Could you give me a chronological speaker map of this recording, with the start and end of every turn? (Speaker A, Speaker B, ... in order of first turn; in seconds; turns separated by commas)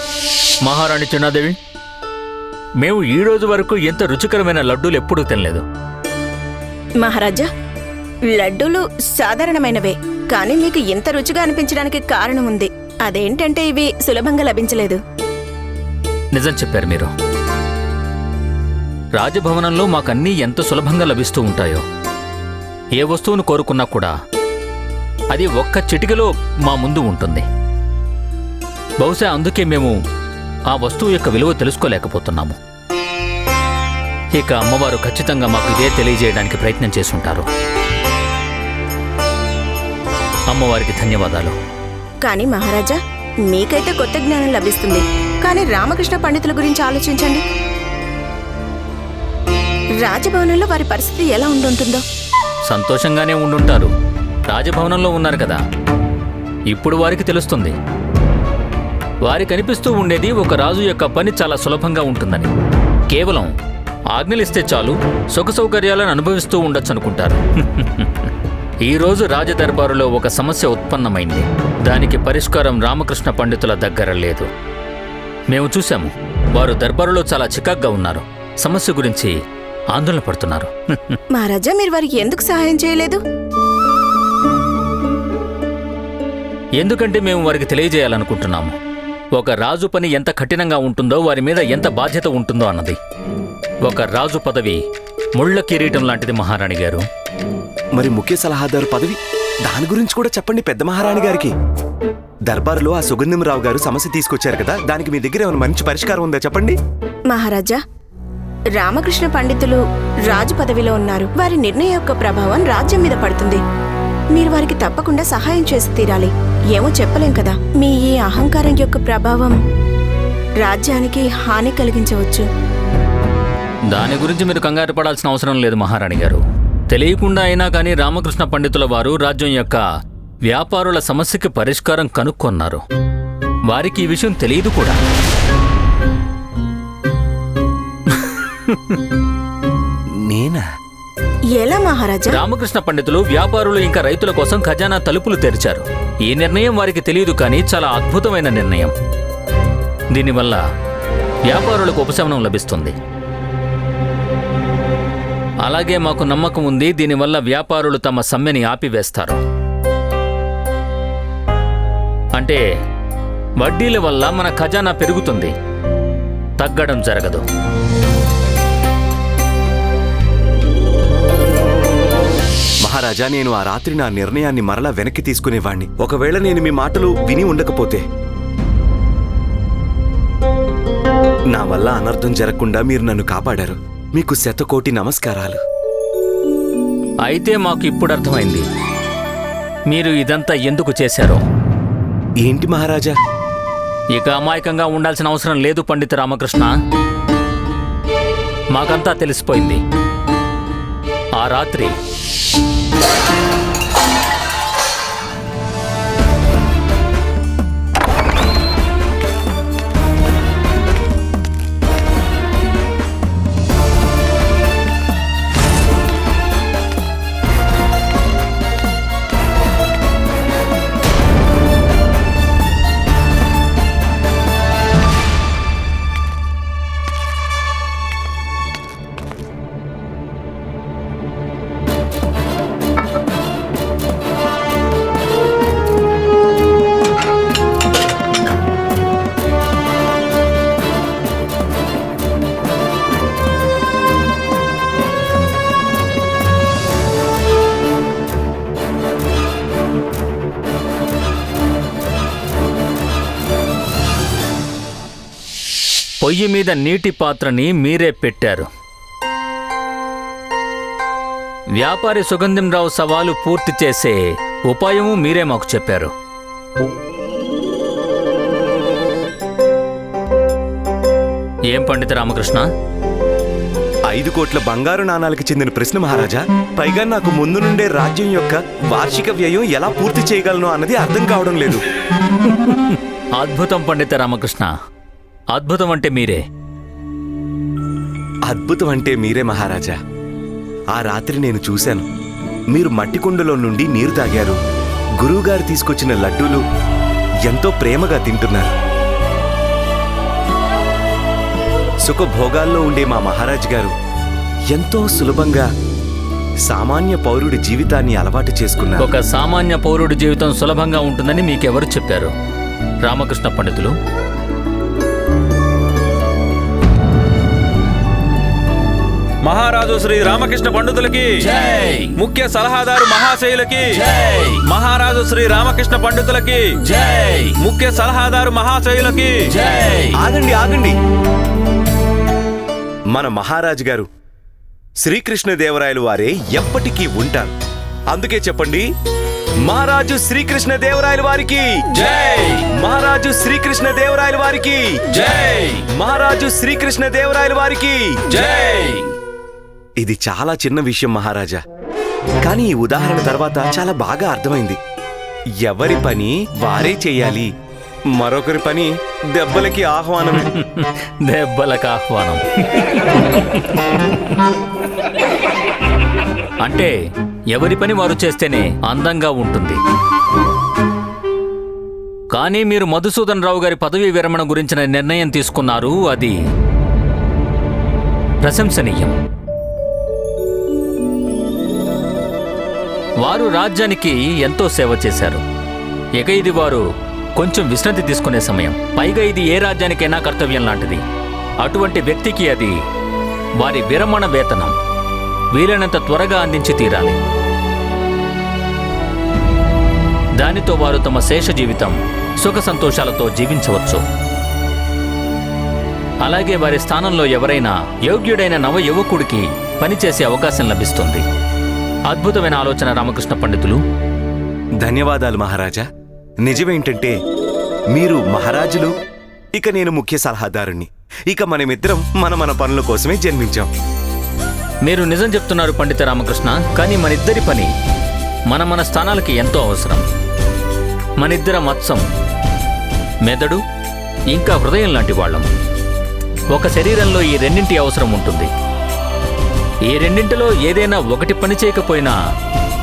Speaker A: 0.6-1.6, Speaker A: 2.8-5.6, Speaker B: 7.0-7.5, Speaker B: 8.3-15.0, Speaker A: 16.3-17.1, Speaker A: 19.2-21.8, Speaker A: 23.0-24.1, Speaker A: 25.3-27.4, Speaker A: 29.0-29.9, Speaker A: 30.7-32.5, Speaker A: 34.3-37.4, Speaker A: 40.5-41.5, Speaker B: 42.2-43.0, Speaker B: 43.5-47.4, Speaker B: 50.0-52.0, Speaker A: 52.7-53.9, Speaker A: 54.5-55.6, Speaker A: 56.7-57.7, Speaker A: 59.2-62.5, Speaker A: 63.1-63.5, Speaker A: 64.1-68.3, Speaker A: 68.8-74.5, Speaker A: 75.5-79.3, Speaker A: 79.9-81.2, Speaker B: 81.3-83.2, Speaker A: 86.8-88.7, Speaker A: 89.3-93.0, Speaker A: 93.8-94.8, Speaker A: 95.4-97.0, Speaker C: 98.0-101.5, Speaker C: 102.5-106.8, Speaker B: 107.3-107.8, Speaker B: 108.8-113.6, Speaker B: 114.3-119.5, Speaker B: 120.6-122.5, Speaker A: 123.9-129.8, Speaker A: 130.4-132.8, Speaker A: 133.7-135.0, Speaker A: 138.2-139.0, Speaker C: 140.2-140.6, Speaker B: 141.5-142.4, Speaker A: 142.3-148.9, Speaker A: 150.1-150.6, Speaker A: 151.5-152.9, Speaker A: 155.6-159.4, Speaker A: 163.6-165.5, Speaker A: 166.6-167.4, Speaker C: 172.8-178.0, Speaker C: 181.5-185.6, Speaker A: 187.2-188.6, Speaker A: 189.9-191.4, Speaker C: 192.4-193.2, Speaker A: 194.2-196.7, Speaker A: 198.7-199.8, Speaker A: 201.4-201.9, Speaker A: 256.2-258.7, Speaker A: 261.8-266.1, Speaker A: 271.7-272.6, Speaker C: 274.1-281.8, Speaker A: 282.4-284.7, Speaker A: 285.5-286.4, Speaker C: 288.5-290.0, Speaker C: 290.9-292.0, Speaker C: 292.7-294.6, Speaker C: 295.2-296.6, Speaker C: 297.5-298.7, Speaker C: 302.1-303.9, Speaker C: 304.7-305.7, Speaker C: 306.7-309.1, Speaker A: 309.0-312.3, Speaker A: 313.0-313.9, Speaker D: 319.4-330.1, Speaker C: 330.1-330.9, Speaker C: 333.1-334.1, Speaker C: 335.0-337.5, Speaker C: 338.1-338.9, Speaker C: 339.6-348.4, Speaker C: 350.0-351.6, Speaker C: 352.4-354.8, Speaker C: 355.6-357.5, Speaker C: 358.1-360.5, Speaker A: 360.4-363.6, Speaker A: 366.6-366.9, Speaker A: 367.5-369.8, Speaker A: 372.3-376.4, Speaker A: 378.4-379.1, Speaker A: 383.2-385.4, Speaker A: 386.2-386.8, Speaker A: 387.4-391.0, Speaker A: 391.6-392.8, Speaker A: 393.6-394.7, Speaker A: 395.5-397.2, Speaker A: 400.4-404.0, Speaker A: 406.2-411.2, Speaker A: 412.1-413.8, Speaker C: 414.8-415.8, Speaker C: 416.4-417.1, Speaker C: 417.9-418.9, Speaker C: 419.5-423.7, Speaker A: 424.9-427.7, Speaker A: 428.5-430.0, Speaker A: 431.2-432.0, Speaker A: 433.2-433.6, Speaker A: 434.3-435.4, Speaker A: 436.5-438.5, Speaker A: 439.9-442.1